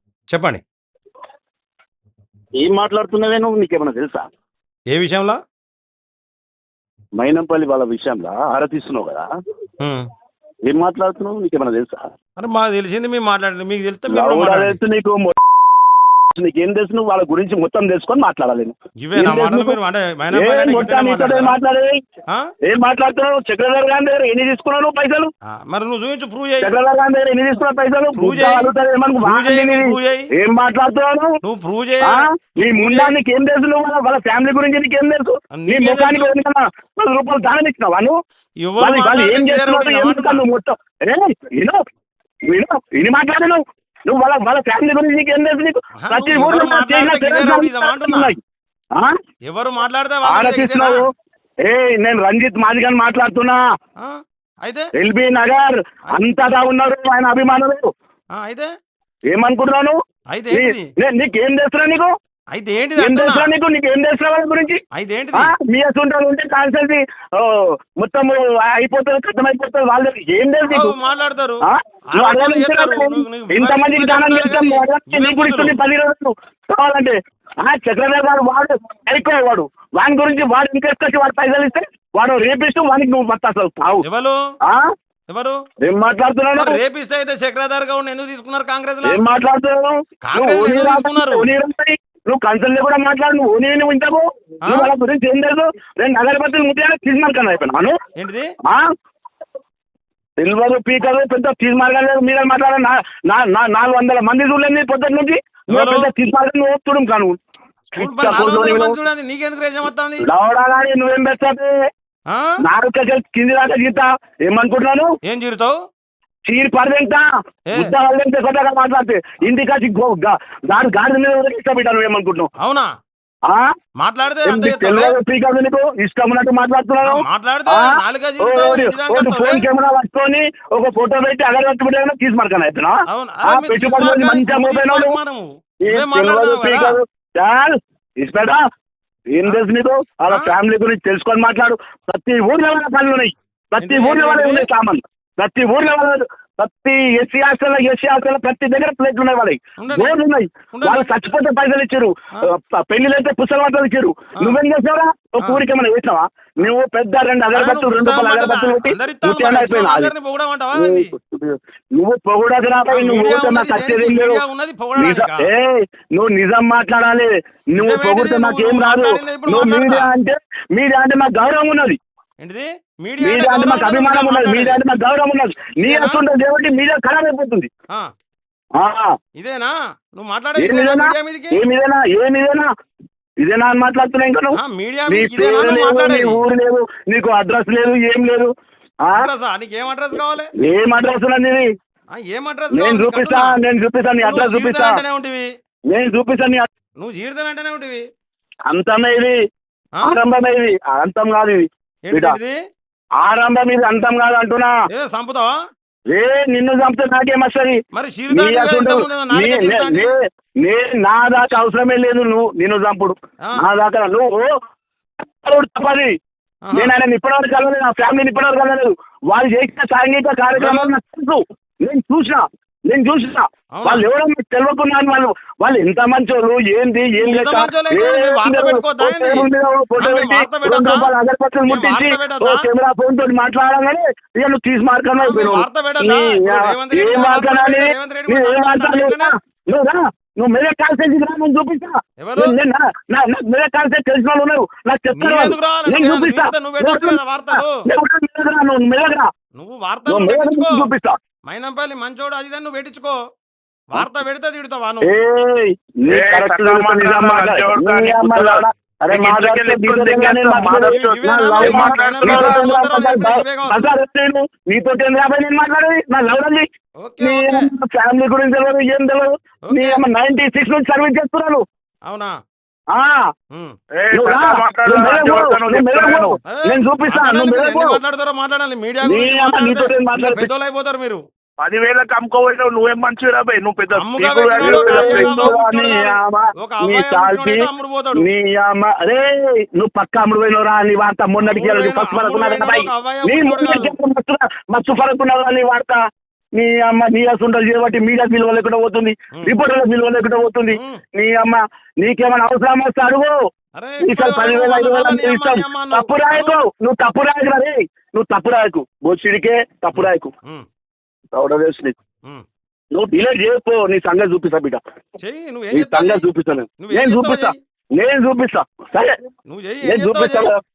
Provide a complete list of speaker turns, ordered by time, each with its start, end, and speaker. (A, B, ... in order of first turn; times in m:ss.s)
0:00.3-0:00.6 A
0:02.6-0:04.3 B
0:04.9-0:05.4 A
0:07.2-0:09.3 B
0:09.8-0:10.1 A
0:10.7-0:12.1 B
0:12.4-0:14.8 A
0:14.1-0:15.4 B
0:16.3-0:19.7 B
0:19.0-0:21.6 A
0:20.3-0:21.9 B
0:22.6-0:25.3 B
0:25.4-0:26.7 A
0:26.6-0:31.3 B
0:28.2-0:30.3 A
0:31.4-0:33.2 A
0:32.0-0:38.2 B
0:35.5-0:36.3 A
0:38.6-0:40.4 A
0:38.8-0:41.8 B
0:42.5-0:48.4 B
0:46.0-0:48.3 A
0:49.4-0:51.0 A
0:50.2-0:51.1 B
0:51.6-0:53.6 B
0:54.0-0:54.9 A
0:54.9-0:57.9 B
0:58.3-0:58.7 A
0:59.3-1:00.0 B
1:00.3-1:00.9 A
1:00.5-1:02.1 B
1:02.5-1:03.5 A
1:03.0-1:04.8 B
1:04.9-1:05.5 A
1:05.3-1:10.9 B
1:10.7-1:15.8 A
1:11.7-1:24.0 B
1:24.0-1:24.4 A
1:25.3-1:25.6 A
1:25.8-1:26.8 B
1:26.5-1:29.2 A
1:29.0-1:38.0 B
1:30.2-1:31.5 A
1:34.6-1:34.9 A
1:38.2-1:38.5 A
1:40.4-1:47.4 B
1:45.7-1:46.1 A
1:47.9-1:50.2 A
1:48.0-1:49.0 B
1:50.2-1:51.7 B
1:52.6-1:55.1 B
1:55.2-1:55.7 A
1:56.5-2:02.5 B
2:02.6-2:02.9 A
2:04.0-2:05.2 A
2:04.4-2:13.0 B
2:07.0-2:09.7 A
2:13.1-2:17.0 A
2:13.5-2:15.2 B
2:15.8-2:18.6 B
2:19.3-2:40.1 B
2:20.3-2:20.5 A
2:23.8-2:24.7 A
2:29.8-2:30.2 A
2:30.7-2:31.1 A
2:37.5-2:41.1 A
2:40.8-2:44.4 B
2:42.9-2:45.5 A
2:45.0-2:52.0 B
2:47.8-2:50.1 A
2:52.4-2:54.8 A
2:53.2-2:57.7 B
2:55.8-2:56.2 A
2:58.8-2:59.1 B
2:59.4-3:01.6 A
3:00.6-3:02.7 B
3:03.4-3:04.6 B
3:04.5-3:06.4 A
3:05.1-3:08.5 B
3:09.1-3:10.5 A
3:10.6-3:11.7 B
3:12.1-3:13.6 A
3:12.7-3:15.0 B
3:14.2-3:15.5 A
3:15.9-3:16.7 B
3:17.0-3:18.0 A
3:18.7-3:19.4 B
3:20.0-3:22.4 B
3:22.1-3:22.6 A
3:23.2-3:24.7 B
3:24.9-3:25.5 A
3:26.1-3:27.8 B
3:27.9-3:30.1 A
3:28.3-3:34.5 B
3:35.4-3:36.1 B
3:36.6-3:36.9 A
3:36.7-4:09.3 B
3:40.5-3:40.9 A
3:43.7-3:44.0 A
3:47.2-3:51.1 A
3:51.6-3:52.7 A
3:55.2-3:59.3 A
4:02.2-4:02.6 A
4:05.1-4:07.8 A
4:09.6-4:10.8 A
4:10.1-4:11.1 B
4:11.4-4:13.2 A
4:13.9-4:15.1 A
4:15.0-4:26.6 B
4:16.1-4:22.7 C
4:20.9-4:23.9 A
4:27.0-4:27.6 A
4:27.2-4:31.6 B
4:29.7-4:30.0 A
4:32.1-4:32.3 A
4:34.0-4:36.4 C
4:34.1-4:38.0 B
4:36.5-4:41.2 A
4:39.0-4:40.5 B
4:41.6-4:45.8 C
4:43.9-4:48.2 A
4:44.6-4:56.0 B
4:51.4-4:53.9 A
4:56.6-5:03.3 B
5:00.7-5:01.0 A
5:03.8-5:06.6 A
5:04.0-5:10.3 B
5:09.9-5:10.6 A
5:11.3-5:11.9 B
5:12.9-5:14.8 B
5:15.2-5:16.2 A
5:15.7-5:19.1 B
5:16.8-5:17.6 A
5:19.5-5:20.5 A
5:19.8-5:20.6 B